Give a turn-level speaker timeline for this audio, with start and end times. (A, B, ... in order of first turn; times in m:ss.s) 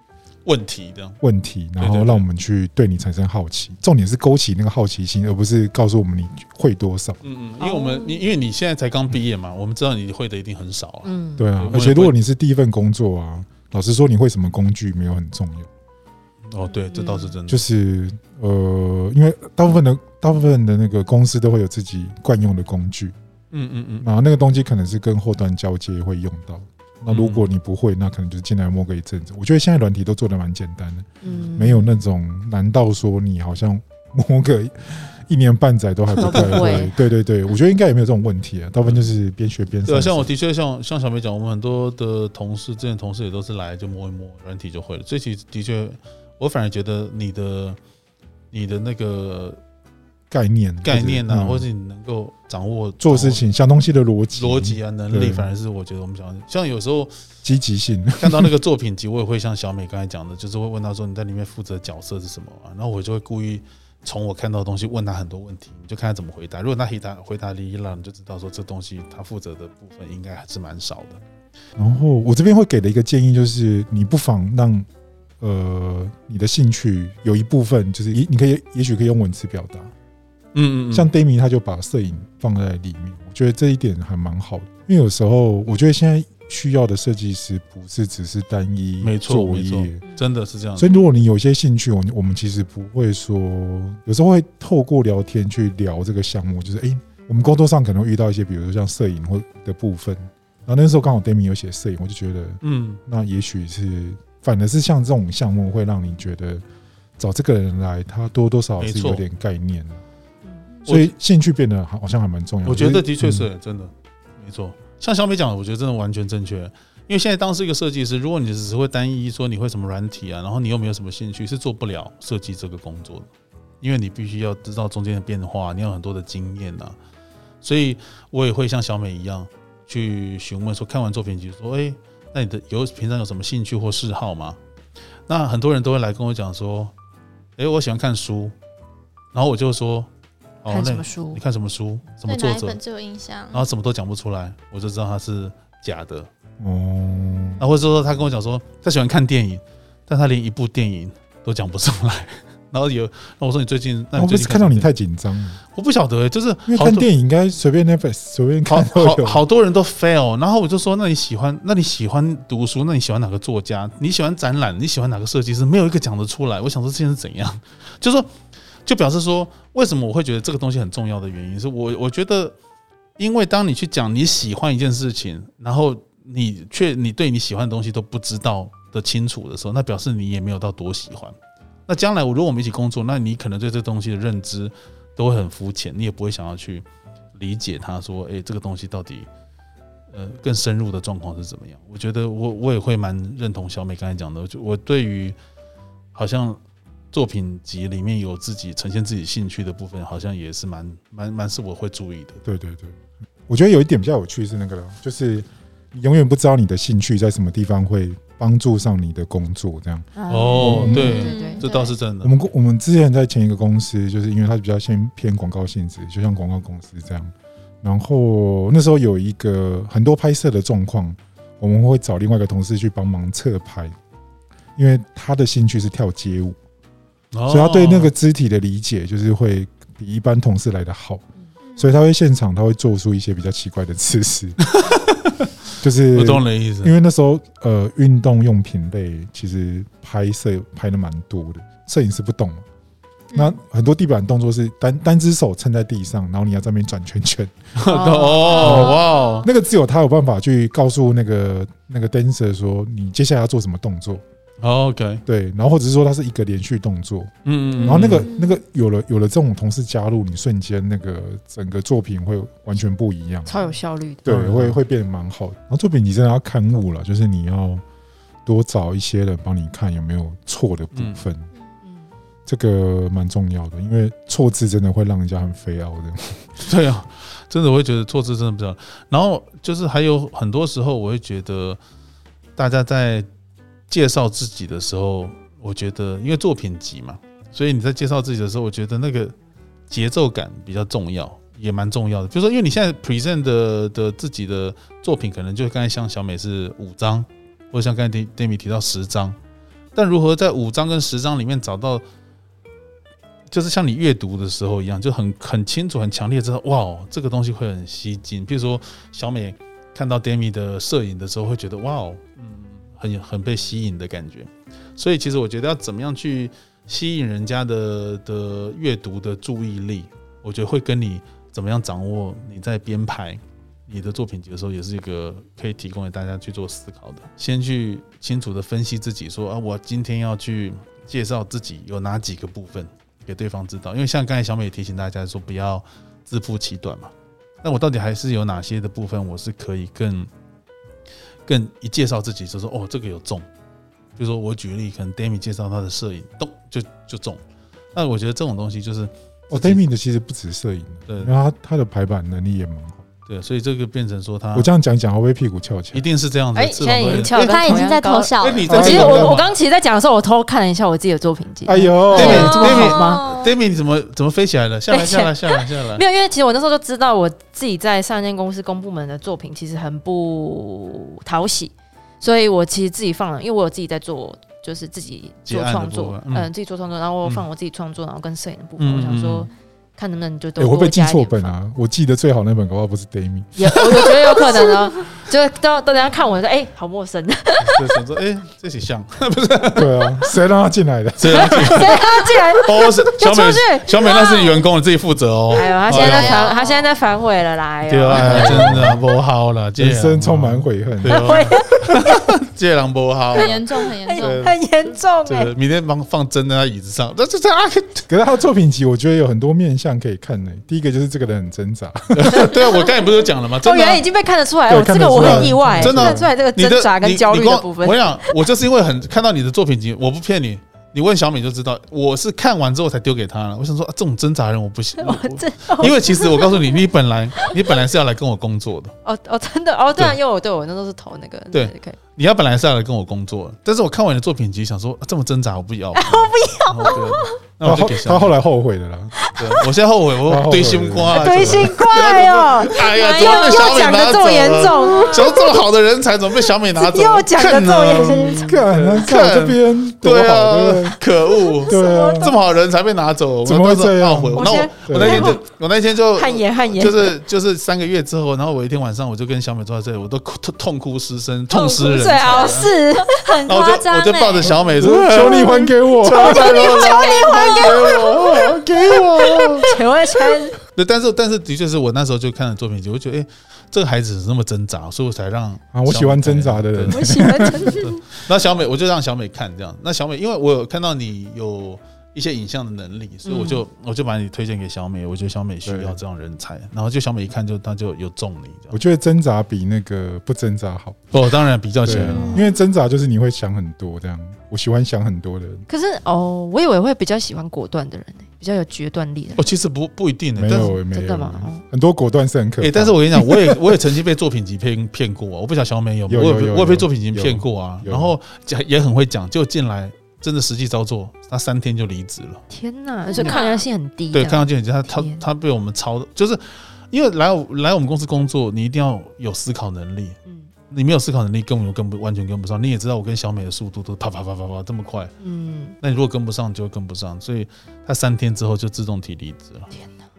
0:00.4-0:01.2 A
0:01.2-0:07.2 B
0:01.8-0:02.2 A
0:07.2-0:12.2 A
0:07.6-0:08.2 C
0:11.0-0:11.5 C
0:11.4-0:15.7 B
0:16.5-0:17.6 A
0:16.9-0:17.4 C
0:17.5-0:23.2 B
0:23.5-0:24.1 A
0:24.0-0:40.3 B
0:27.1-0:27.5 A
0:31.2-0:31.9 C
0:36.2-0:36.9 C
0:36.3-0:36.8 A
0:38.8-0:39.1 A
0:39.9-0:47.8 A
0:48.5-0:49.6 A
0:50.3-0:51.7 B
0:50.8-0:53.4 A
0:53.0-0:55.5 B
0:54.3-0:57.1 A
0:57.4-0:58.5 B
0:58.2-1:11.2 A
1:11.8-1:14.9 B
1:15.4-1:19.9 B
1:20.5-1:21.1 A
1:20.9-1:30.0 B
1:29.0-1:31.0 A
1:30.8-1:46.6 B
1:42.6-1:43.0 A
1:47.2-1:50.0 B
1:48.8-1:49.2 A
1:50.9-1:51.1 A
1:50.9-1:53.5 B
1:52.6-2:03.3 A
2:03.8-2:07.0 A
2:07.6-2:14.6 A
2:15.3-2:16.9 A
2:17.6-2:18.5 A
2:19.3-2:20.1 A
2:20.6-2:22.8 A
2:20.7-2:21.4 C
2:22.3-2:23.7 D
2:23.5-2:26.3 A
2:26.6-2:27.7 B
2:27.6-2:34.9 A
2:34.2-2:35.6 B
2:35.7-2:37.1 A
2:36.7-2:39.4 B
2:38.7-2:48.3 A
2:48.9-2:52.6 A
2:53.2-3:01.4 A
3:01.9-3:09.3 A
3:10.1-3:15.4 A
3:16.2-3:16.6 A
3:17.1-3:22.4 A
3:22.4-3:31.2 B
3:30.2-3:31.7 C
3:30.3-3:32.3 A
3:31.0-3:32.0 D
3:32.2-3:44.0 B
3:44.8-3:46.6 B
3:47.3-3:48.1 A
3:47.5-3:51.2 B
3:51.6-3:52.0 D
3:51.8-3:54.6 B
3:54.6-3:55.5 A
3:55.8-4:02.6 B
3:56.1-3:56.9 A
4:03.4-4:07.5 B
4:07.8-4:09.5 A
4:07.9-4:09.5 D
4:08.6-4:14.2 B
4:14.6-4:15.2 A
4:15.3-4:23.6 B
4:17.4-4:18.3 A
4:17.8-4:18.6 D
4:23.5-4:24.2 C
4:24.2-4:27.8 B
4:24.3-4:24.8 A
4:28.4-4:31.5 B
4:30.9-4:31.2 A
4:31.8-4:32.1 C
4:32.5-4:36.5 B
4:36.6-4:41.8 A
4:42.6-4:43.3 A
4:43.9-4:49.4 A
4:49.9-4:59.4 A
5:00.0-5:02.0 A
5:03.5-5:37.1 A
5:37.6-5:40.3 A
5:41.5-5:43.5 A
5:44.2-5:47.4 A
5:48.0-5:49.8 A
5:49.5-5:53.0 B
5:51.1-5:51.3 A
5:53.3-5:54.7 A
5:54.5-5:56.1 B
5:55.9-5:57.8 A
5:56.5-6:03.2 C
5:57.0-5:59.3 D
5:58.4-5:59.5 A
5:58.7-5:59.4 B
6:01.7-6:02.9 B
6:02.1-6:06.0 A
6:02.2-6:03.5 D
6:04.9-6:21.5 C
6:15.4-6:16.5 A
6:18.8-6:19.5 A
6:20.6-6:24.1 B
6:23.6-6:28.0 C
6:24.0-6:24.4 A
6:27.6-6:30.3 A
6:29.8-6:31.9 B
6:31.2-6:36.4 A
6:31.3-6:34.4 C
6:34.1-6:34.5 D
6:35.5-6:39.0 C
6:35.7-6:36.9 D
6:37.9-6:43.6 A
6:38.2-6:39.0 B
6:39.8-6:41.6 B
6:41.1-6:42.3 C
6:43.3-6:44.5 D
6:43.4-6:45.5 C
6:44.2-6:44.6 A
6:45.2-6:48.1 A
6:48.1-6:52.5 B
6:52.1-6:54.0 A
6:52.4-6:52.8 C
6:53.6-6:58.4 C
6:54.7-6:56.3 B
6:55.1-7:08.9 A
7:05.0-7:06.8 C
7:09.0-7:12.0 C
7:11.5-7:18.3 A
7:15.9-7:17.4 C
7:17.6-7:19.1 B
7:19.2-7:19.6 C
7:19.4-7:42.7 A
7:20.3-7:21.9 B
7:21.1-7:25.6 C
7:26.8-7:28.5 C
7:27.9-7:31.0 B
7:31.5-7:32.4 C
7:31.7-7:32.4 B
7:33.4-7:35.4 B
7:34.4-7:35.4 C
7:36.2-7:37.2 C
7:41.5-7:50.6 C
7:43.0-7:44.5 D
7:43.4-7:49.8 A
7:44.8-7:46.7 B
7:46.7-7:48.0 D
7:50.7-8:08.8 A
7:55.7-7:57.8 B
7:56.9-7:58.0 C
8:03.3-8:03.6 C
8:05.6-8:06.0 B
8:08.7-8:11.0 B
8:11.1-8:12.4 A
8:11.8-8:15.7 B
8:12.1-8:12.4 D
8:15.7-8:19.4 C
8:19.4-8:20.8 A
8:20.4-8:23.6 B
8:20.5-8:21.6 C
8:22.6-8:32.4 A
8:26.1-8:28.2 B
8:32.5-8:35.2 C
8:33.1-8:33.6 D
8:33.2-8:33.4 A
8:34.1-8:40.2 A
8:40.7-8:45.1 A
8:45.2-8:45.8 C
8:45.8-8:49.7 A
8:49.7-8:50.0 C